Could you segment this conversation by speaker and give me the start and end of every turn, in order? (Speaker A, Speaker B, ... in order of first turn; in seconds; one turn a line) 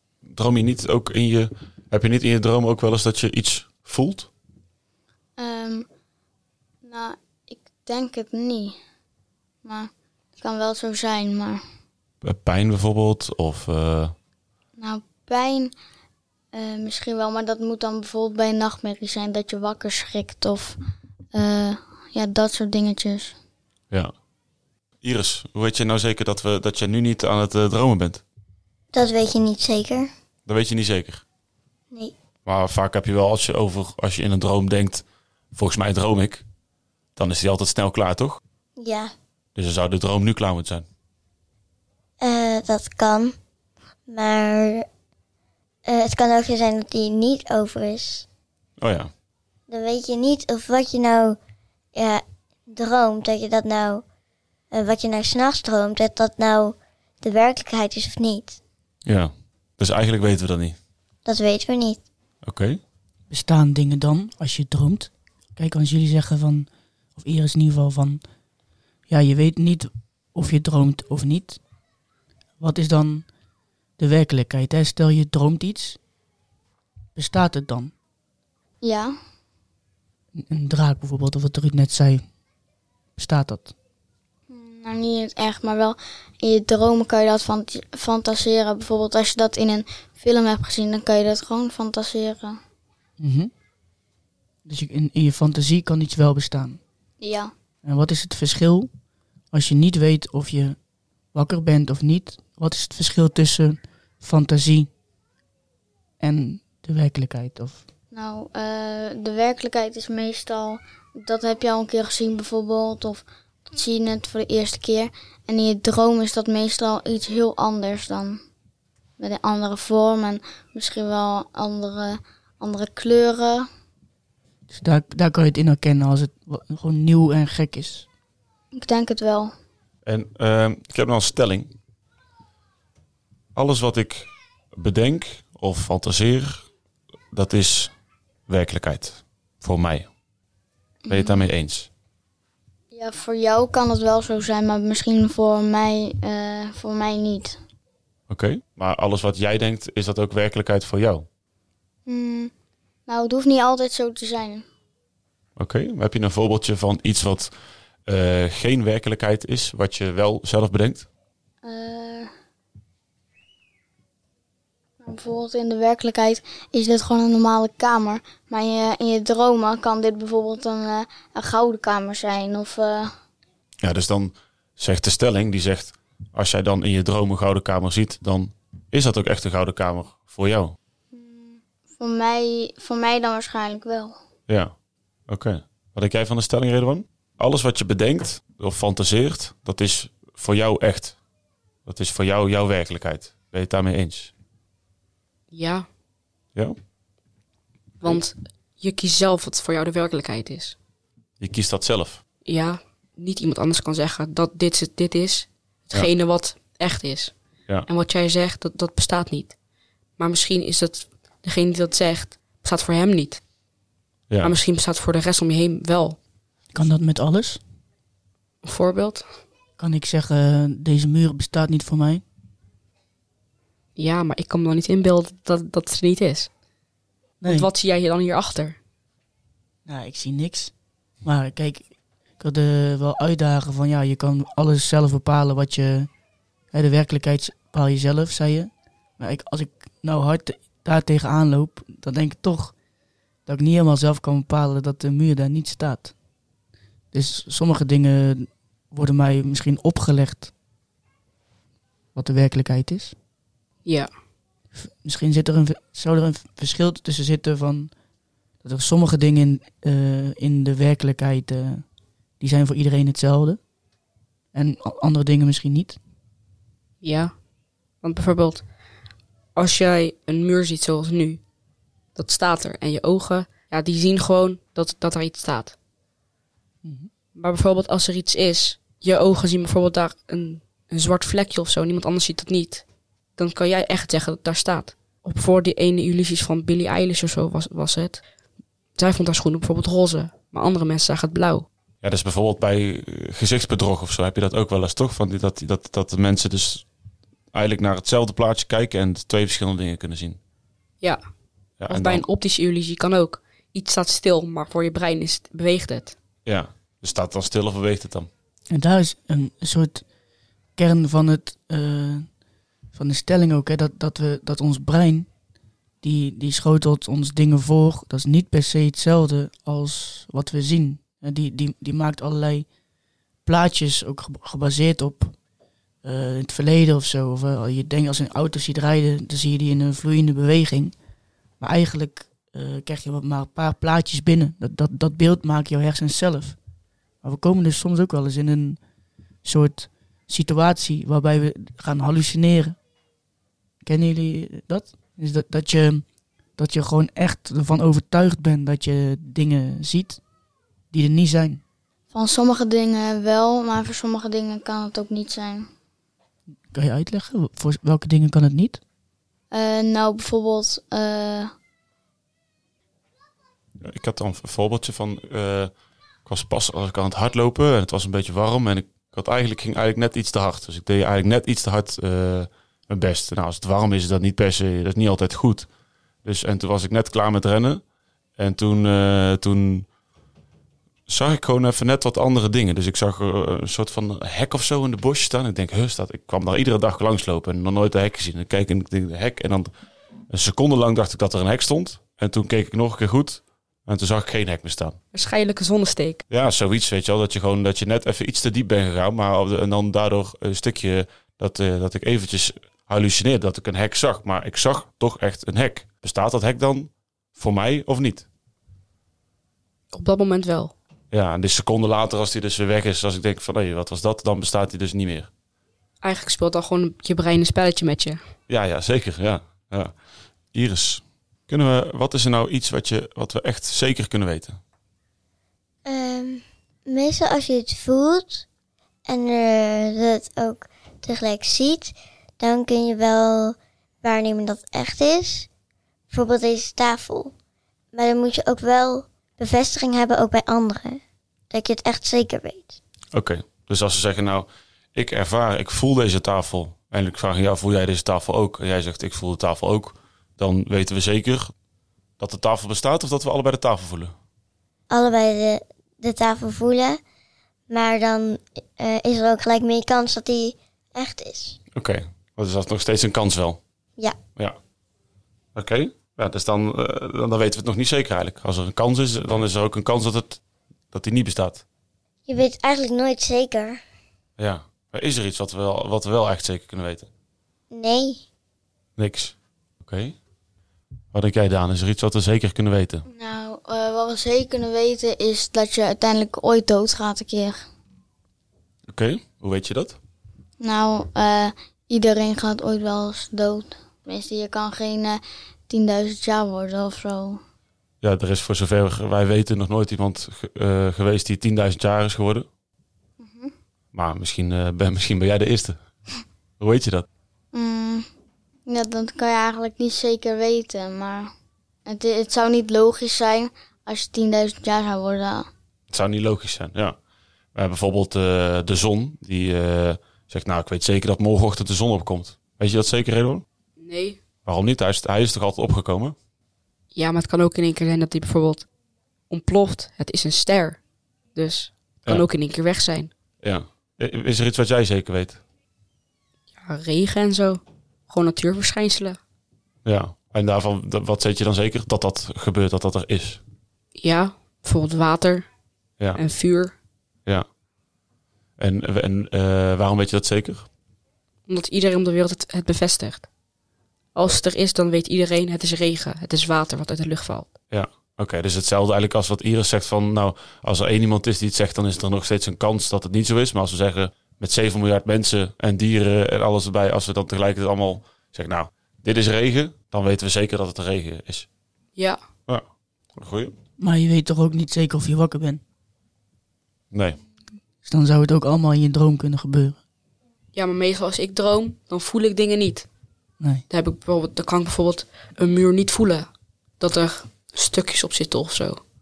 Speaker A: 0.3-4.3
Speaker B: 5.4-5.9
Speaker B: 6.8-8.8
Speaker B: 9.6-11.6
Speaker A: 12.2-14.1
Speaker B: 14.8-15.7
Speaker B: 16.5-20.8
Speaker B: 21.3-23.3
Speaker A: 25.0-28.2
Speaker C: 28.9-30.1
Speaker A: 30.5-31.2
Speaker A: 32.5-36.4
Speaker A: 37.1-38.4
Speaker C: 38.8-39.1
Speaker A: 39.5-40.9
Speaker C: 42.2-43.4
Speaker C: 44.1-44.9
Speaker C: 45.9-48.2
Speaker A: 48.8-49.1
Speaker C: 49.7-51.4
Speaker C: 51.9-54.0
Speaker C: 54.7-58.6
Speaker A: 59.0-60.8
Speaker C: 61.2-62.0
Speaker A: 62.4-62.8
Speaker D: 63.3-68.2
Speaker D: 69.1-71.6
Speaker D: 72.6-73.3
Speaker D: 74.0-76.0
Speaker D: 77.1-77.9
Speaker B: 78.8-79.2
Speaker D: 80.3-82.2
Speaker D: 83.2-83.7
Speaker B: 84.5-92.6
Speaker D: 93.2-93.5
Speaker D: 94.6-96.8
Speaker B: 97.2-97.5
Speaker D: 97.8-98.9
Speaker D: 99.5-100.8
Speaker D: 101.3-104.9
Speaker D: 106.2-107.8
Speaker B: 108.1-118.4
Speaker B: 119.2-123.7
Speaker D: 124.7-128.1
Speaker B: 128.8-129.5
Speaker A: 130.1-131.7
Speaker A: 133.5-136.6
Speaker A: 137.3-137.9
Speaker A: 138.5-140.1
Speaker B: 141.0-141.5
Speaker A: 141.1-141.9
Speaker B: 142.9-147.6
Speaker A: 148.3-151.3
Speaker B: 152.1-152.5
Speaker B: 153.1-154.7
Speaker A: 155.6-157.5
Speaker A: 158.0-161.1
Speaker B: 161.6-162.3
Speaker B: 165.0-173.1
Speaker A: 173.8-180.8
Speaker B: 181.1-184.2
Speaker A: 184.5-184.7
Speaker A: 185.3-191.2
Speaker A: 191.8-194.3
Speaker E: 195.5-195.9
Speaker E: 198.0-200.8
Speaker A: 201.4-202.2
Speaker E: 202.4-209.6
Speaker E: 210.2-213.4
Speaker A: 214.3-214.5
Speaker E: 214.4-216.2
Speaker D: 216.7-217.6
Speaker E: 218.6-219.3
Speaker D: 219.8-222.2
Speaker E: 223.9-226.5
Speaker D: 227.4-227.7
Speaker E: 227.4-228.8
Speaker D: 229.8-236.1
Speaker D: 236.7-242.8
Speaker D: 243.4-246.1
Speaker D: 247.1-250.5
Speaker D: 252.1-253.1
Speaker E: 253.8-254.1
Speaker D: 254.7-257.9
Speaker D: 258.6-261.9
Speaker D: 262.4-263.6
Speaker D: 264.5-266.0
Speaker E: 267.0-267.4
Speaker E: 268.0-268.6
Speaker E: 269.5-271.4
Speaker E: 272.1-275.7
Speaker D: 276.8-277.1
Speaker E: 277.4-282.8
Speaker E: 283.4-288.2
Speaker E: 288.9-291.7
Speaker A: 292.0-296.9
Speaker A: 297.5-300.4
Speaker A: 301.8-302.2
Speaker E: 301.9-306.1
Speaker A: 306.4-308.3
Speaker D: 308.7-310.0
Speaker D: 310.8-312.3
Speaker D: 312.9-315.3
Speaker D: 316.0-322.7
Speaker D: 323.4-325.4
Speaker D: 326.0-330.9
Speaker D: 331.6-336.6
Speaker D: 337.2-338.8
Speaker D: 339.4-342.8
Speaker D: 343.8-346.1
Speaker D: 346.6-350.2
Speaker D: 350.9-351.6
Speaker B: 352.1-355.7
Speaker D: 356.7-358.8
Speaker B: 359.5-361.5
Speaker A: 363.8-365.7
Speaker A: 366.2-375.7
Speaker A: 376.2-377.8
Speaker A: 378.4-379.9
Speaker A: 381.1-389.7
Speaker A: 390.3-395.0
Speaker E: 395.1-396.2
Speaker A: 396.3-408.2
Speaker E: 409.9-410.7
Speaker A: 411.1-415.3
Speaker E: 416.0-418.2
Speaker A: 418.5-419.9
Speaker A: 420.5-424.6
Speaker C: 425.8-428.4
Speaker C: 429.1-435.5
Speaker C: 436.1-437.3
Speaker C: 437.9-442.8
Speaker A: 443.1-451.5
Speaker A: 452.2-454.1
Speaker C: 454.9-457.0
Speaker C: 457.7-461.6
Speaker A: 461.7-463.6
Speaker A: 465.5-470.4
Speaker A: 470.9-471.6
Speaker C: 472.3-473.8
Speaker A: 474.4-477.1
Speaker C: 477.7-478.2
Speaker A: 479.0-480.1
Speaker A: 481.1-483.0
Speaker B: 483.1-487.6
Speaker A: 488.9-490.0
Speaker B: 490.6-497.4
Speaker A: 498.0-502.5
Speaker B: 503.2-503.5
Speaker A: 503.9-505.8
Speaker A: 506.6-507.1
Speaker B: 507.5-508.1
Speaker B: 508.7-511.3
Speaker B: 511.9-515.5
Speaker A: 515.9-517.0
Speaker A: 517.5-523.4
Speaker E: 523.8-524.2
Speaker A: 524.4-526.1
Speaker E: 526.9-528.7
Speaker E: 529.3-530.8
Speaker E: 531.3-533.1
Speaker A: 533.4-535.4
Speaker E: 536.6-539.2
Speaker A: 539.8-543.4
Speaker E: 544.0-545.5
Speaker E: 546.1-546.8
Speaker A: 548.6-550.7
Speaker E: 551.5-553.3
Speaker E: 554.1-557.5
Speaker A: 557.7-571.5
Speaker A: 572.5-573.5
Speaker D: 573.8-575.6
Speaker A: 576.9-577.2
Speaker D: 577.8-579.8
Speaker E: 580.5-582.9
Speaker E: 583.7-586.3
Speaker E: 586.8-588.8